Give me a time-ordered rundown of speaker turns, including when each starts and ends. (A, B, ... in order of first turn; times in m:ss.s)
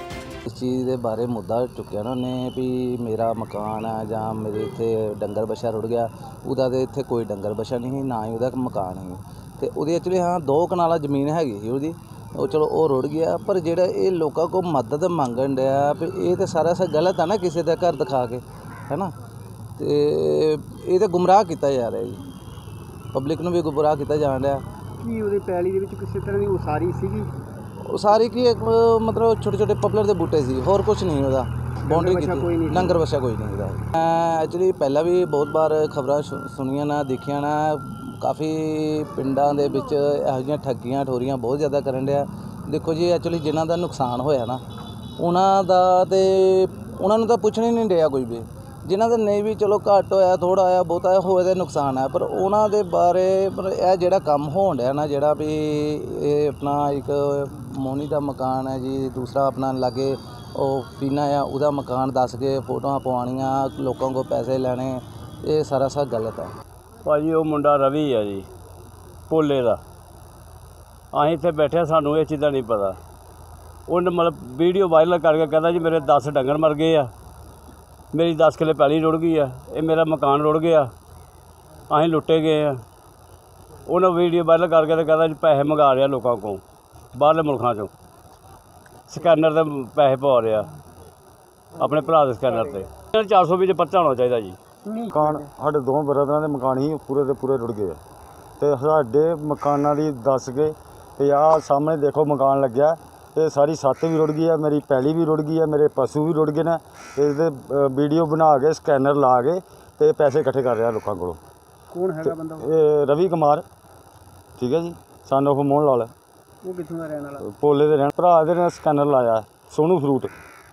0:00.5-0:19.1 A
0:19.8-0:22.2 A
0:23.1-0:24.6 A
0:25.0-0:27.3 B
0:27.9-0:44.6 A
0:31.8-0:33.0 B
0:45.2-1:06.5 A
1:07.1-1:08.4 C
1:09.3-1:09.8 C
1:11.1-1:13.0 C
1:13.9-1:17.1 C
1:18.1-1:20.9 C
1:21.9-1:22.8 C
1:23.9-1:26.6 C
1:27.2-1:27.9 C
1:29.1-1:30.7 C
1:31.8-1:34.6 C
1:34.8-1:35.5 B
1:35.1-1:38.0 D
1:38.6-1:51.4 D
1:51.9-1:52.6 B
1:52.2-1:53.7 D
1:54.6-1:56.1 D
1:56.6-1:57.4 B
1:57.4-2:00.3 D